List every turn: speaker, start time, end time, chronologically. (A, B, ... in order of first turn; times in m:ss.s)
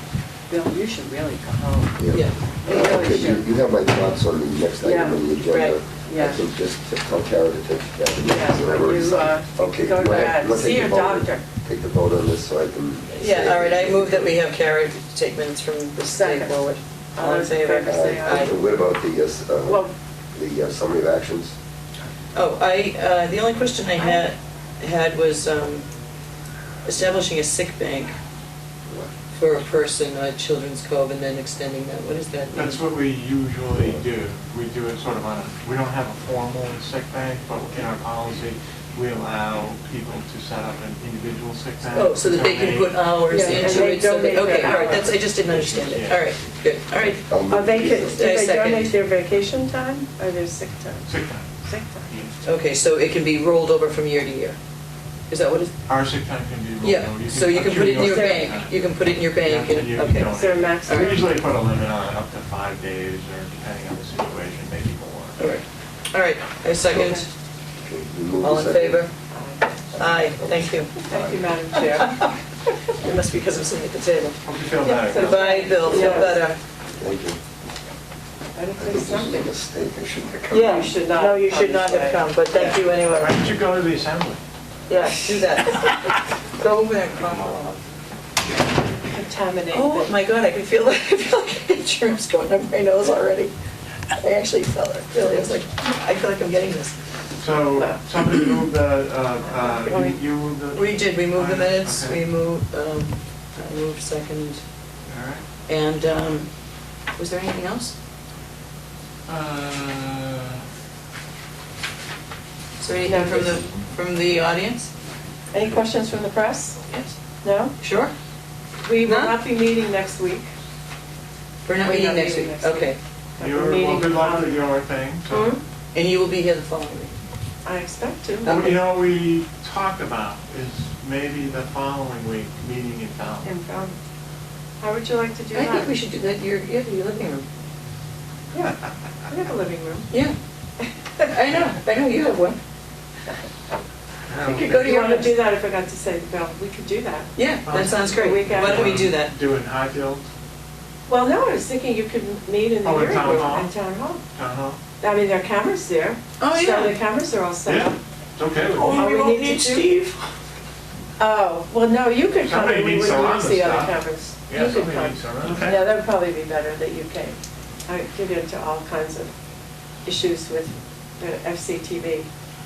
0:00.5-0:02.0 A
0:02.0-0:14.4 B
0:02.6-0:03.4 A
0:04.8-0:05.3 A
0:05.5-0:05.8 C
0:05.9-0:06.4 A
0:08.2-0:11.4 A
0:13.1-0:18.5 C
0:16.0-0:16.6 A
0:17.2-0:18.5 A
0:17.9-0:21.6 B
0:19.6-0:19.9 A
0:22.3-0:25.8 C
0:24.0-0:24.3 A
0:26.8-0:28.1 C
0:28.8-0:29.1 B
0:29.3-0:32.8 C
0:32.5-0:43.8 D
0:33.7-0:34.0 B
0:41.9-0:47.2 C
0:43.3-0:45.1 A
0:44.6-0:46.3 D
0:46.9-0:51.1 A
0:47.3-0:48.2 B
0:47.9-0:49.0 C
0:51.0-0:51.5 D
0:51.6-0:52.1 A
0:52.1-0:52.3 D
0:52.4-0:54.6 C
0:55.3-0:55.7 C
0:55.9-1:05.6 D
0:56.8-1:01.2 C
0:57.9-0:58.5 A
1:00.3-1:01.3 A
1:05.4-1:07.3 C
1:06.9-1:07.2 A
1:07.8-1:09.1 B
1:08.4-1:09.1 C
1:09.3-1:09.8 A
1:09.9-1:11.4 B
1:10.0-1:11.0 C
1:11.0-1:12.1 A
1:11.7-1:12.3 C
1:12.9-1:16.6 C
1:14.4-1:15.6 D
1:14.8-1:16.4 A
1:15.9-1:16.4 B
1:17.0-1:17.4 B
1:18.5-1:19.5 A
1:18.8-1:20.9 B
1:20.5-1:23.5 C
1:20.5-1:22.2 A
1:22.6-1:24.4 D
1:24.9-1:27.8 C
1:29.1-1:30.1 A
1:29.7-1:33.5 C
1:34.1-1:37.0 C
1:37.4-1:42.2 D
1:37.7-1:38.0 A
1:39.4-1:40.2 A
1:40.7-1:44.6 C
1:45.0-1:45.4 D
1:45.7-1:46.5 C
1:47.1-1:47.9 C
1:49.3-1:50.6 D
1:52.8-1:54.9 C
1:53.0-1:53.7 A
1:55.5-1:56.8 A
1:56.9-1:57.1 C
1:57.4-1:57.7 A
1:57.8-1:58.1 C
1:58.8-2:00.5 A
1:59.0-1:59.4 C
2:01.6-2:03.0 C
2:01.8-2:04.6 A
2:03.4-2:05.6 D
2:05.3-2:07.2 C
2:07.6-2:08.8 A
2:08.4-2:08.7 C
2:08.5-2:13.5 D
2:13.4-2:14.0 A
2:14.8-2:15.9 A
2:15.5-2:17.4 C
2:18.5-2:18.9 D
2:19.3-2:20.1 A
2:20.1-2:20.4 C
2:21.3-2:22.6 C
2:24.3-2:24.8 D
2:24.4-2:25.4 C
2:24.5-2:27.3 A
2:27.4-2:29.3 C
2:27.6-2:30.2 D
2:28.1-2:29.2 A
2:31.1-2:34.2 A
2:32.8-2:33.7 D
2:34.3-2:34.8 D
2:35.0-2:38.0 A
2:36.4-2:37.0 C
2:37.6-2:39.1 D
2:38.7-2:40.2 C
2:38.9-2:39.9 A
2:41.2-2:49.3 A
2:42.4-2:45.8 D
2:50.0-2:52.3 A